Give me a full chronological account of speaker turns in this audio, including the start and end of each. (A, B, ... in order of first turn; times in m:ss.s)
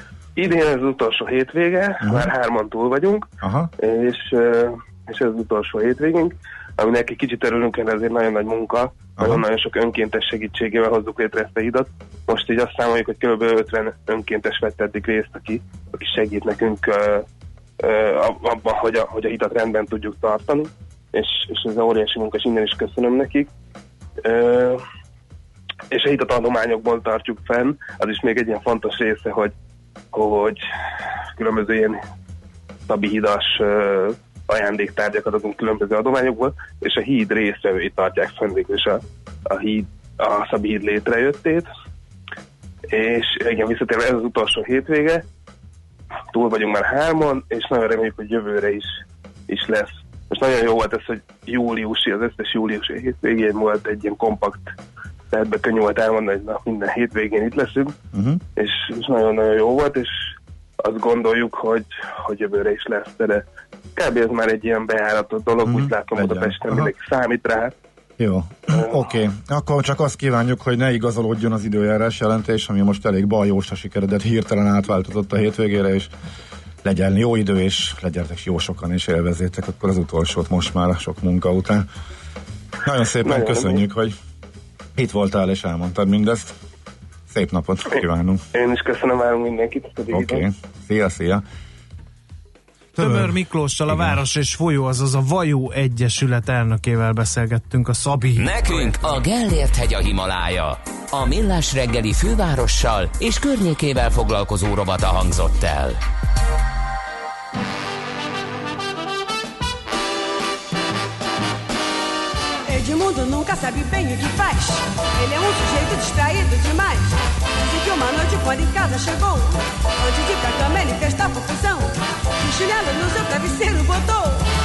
0:00.4-0:03.3 A
0:02.0-0:02.3 B
0:03.4-0:03.7 B
0:03.8-0:17.2 A
0:09.2-0:09.4 B
0:17.8-0:23.5 A
0:24.2-0:24.8 A
0:25.9-0:29.5 A
0:30.1-0:30.6 A
0:31.3-0:32.0 A
0:32.9-0:41.7 A
0:42.9-0:45.2 A
0:46.3-0:54.7 A
0:55.3-0:58.0 A
0:58.1-0:58.4 B
0:58.6-1:00.1 A
1:00.8-1:03.4 A
1:03.9-1:07.7 A
1:05.6-1:06.9 B
1:08.2-1:16.1 B
1:16.8-1:21.8 B
1:22.8-1:24.1 B
1:23.2-1:23.8 A
1:25.0-1:26.5 B
1:27.3-1:28.4 B
1:28.5-1:30.5 A
1:30.1-1:31.4 B
1:32.9-1:33.4 B
1:33.0-1:38.9 C
1:33.9-1:34.2 B
1:38.4-1:46.0 D
1:52.7-2:04.5 E